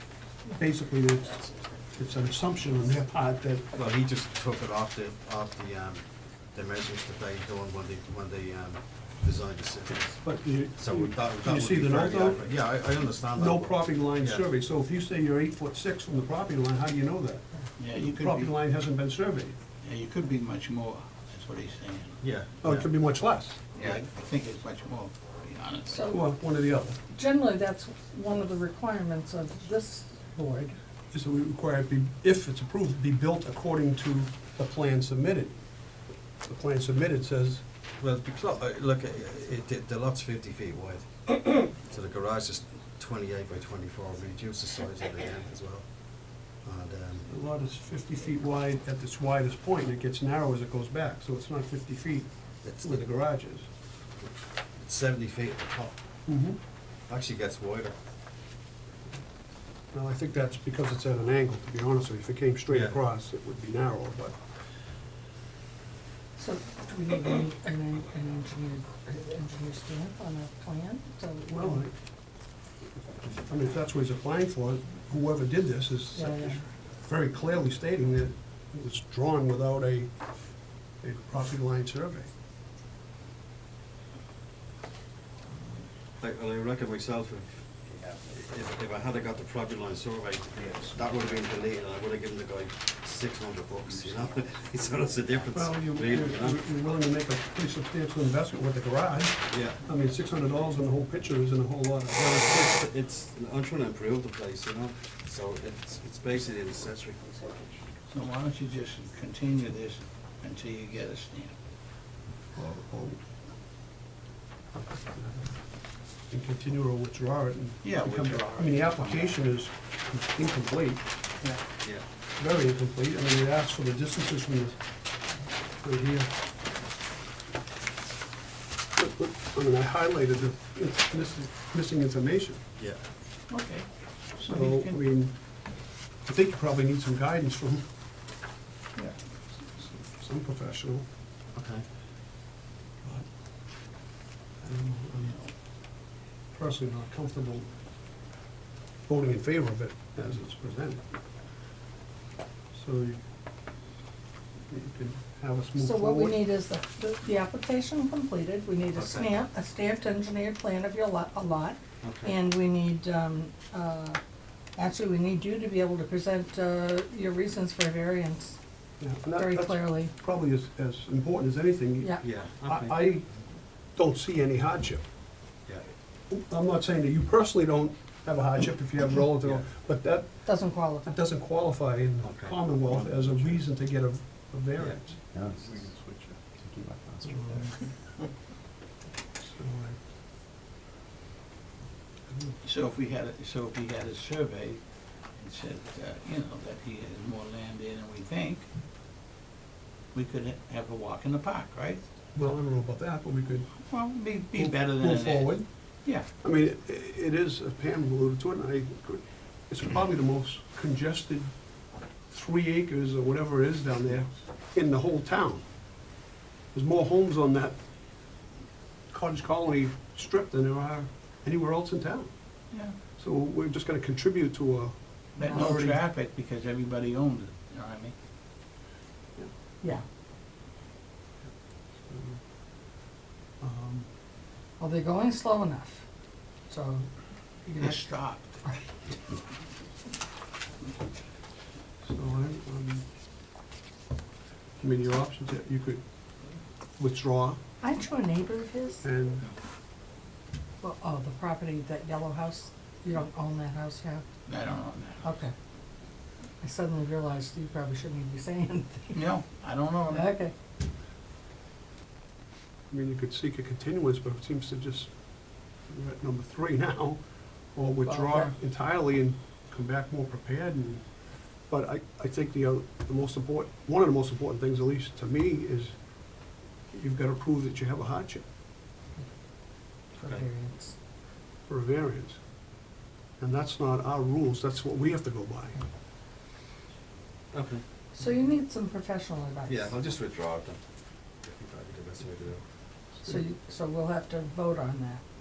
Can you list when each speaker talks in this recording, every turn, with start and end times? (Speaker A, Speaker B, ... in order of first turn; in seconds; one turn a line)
Speaker A: 0.4-3.7
Speaker B: 3.7-10.2
Speaker A: 10.2-12.4
Speaker B: 10.7-14.4
Speaker A: 13.4-19.5
Speaker C: 17.8-18.6
Speaker C: 19.8-22.2
Speaker B: 22.2-22.9
Speaker A: 22.6-23.6
Speaker C: 23.7-26.0
Speaker D: 25.9-26.3
Speaker A: 26.1-27.0
Speaker D: 27.1-30.8
Speaker A: 31.1-35.6
Speaker A: 36.4-37.6
Speaker B: 38.0-41.1
Speaker B: 41.8-47.3
Speaker A: 47.3-52.3
Speaker B: 52.6-53.0
Speaker A: 52.8-53.7
Speaker B: 54.2-56.0
Speaker A: 56.3-56.6
Speaker B: 57.1-58.0
Speaker A: 59.9-64.4
Speaker B: 62.7-63.0
Speaker D: 66.3-71.8
Speaker A: 71.5-71.9
Speaker A: 73.2-80.1
Speaker D: 76.1-76.6
Speaker A: 81.0-82.3
Speaker B: 86.2-96.6
Speaker A: 95.5-102.8
Speaker B: 99.5-99.8
Speaker B: 102.3-107.5
Speaker C: 108.1-111.5
Speaker A: 112.5-113.2
Speaker A: 115.1-115.5
Speaker A: 116.3-121.1
Speaker C: 117.8-119.4
Speaker A: 122.4-124.8
Speaker A: 125.8-126.3
Speaker A: 128.9-132.6
Speaker C: 133.5-135.0
Speaker A: 134.4-137.8
Speaker A: 139.7-141.1
Speaker B: 141.5-141.8
Speaker A: 144.6-145.4
Speaker A: 146.5-147.7
Speaker A: 149.1-151.0
Speaker A: 152.7-153.2
Speaker A: 154.7-156.4
Speaker D: 155.8-164.2
Speaker B: 158.9-159.3
Speaker B: 162.0-162.3
Speaker D: 164.8-168.6
Speaker A: 169.0-173.2
Speaker D: 169.3-170.1
Speaker B: 172.2-173.2
Speaker A: 173.9-175.0
Speaker A: 176.3-185.2
Speaker B: 179.4-179.7
Speaker D: 180.4-181.1
Speaker B: 182.2-183.7
Speaker B: 184.8-187.7
Speaker A: 187.2-187.8
Speaker A: 189.4-189.9
Speaker A: 192.3-192.6
Speaker C: 192.6-198.6
Speaker C: 200.1-202.5
Speaker A: 202.3-203.7
Speaker C: 203.8-206.3
Speaker A: 204.5-205.7
Speaker A: 206.4-211.5
Speaker A: 212.3-215.7
Speaker A: 216.7-217.8
Speaker A: 219.1-222.3
Speaker A: 223.1-226.0
Speaker C: 225.3-228.1
Speaker D: 225.4-225.8
Speaker A: 232.0-232.4
Speaker A: 233.6-234.1
Speaker D: 234.8-236.0
Speaker D: 236.7-237.1
Speaker D: 237.6-238.0
Speaker C: 237.8-238.5
Speaker A: 242.0-243.0
Speaker A: 244.8-246.0
Speaker A: 247.0-247.6
Speaker D: 247.8-249.0
Speaker A: 249.0-249.4
Speaker D: 250.8-254.3
Speaker C: 254.5-255.2
Speaker D: 255.2-255.5
Speaker D: 256.6-259.2
Speaker C: 259.1-260.3
Speaker D: 260.1-260.5
Speaker A: 262.9-265.1
Speaker A: 265.9-267.2
Speaker A: 267.7-271.0
Speaker D: 268.0-268.5
Speaker A: 271.7-275.9
Speaker A: 276.9-278.4
Speaker D: 280.1-280.9
Speaker A: 281.7-282.4
Speaker A: 283.4-285.8
Speaker B: 287.5-287.8
Speaker D: 288.1-289.9
Speaker B: 289.6-290.8
Speaker B: 291.4-292.6
Speaker D: 293.2-295.2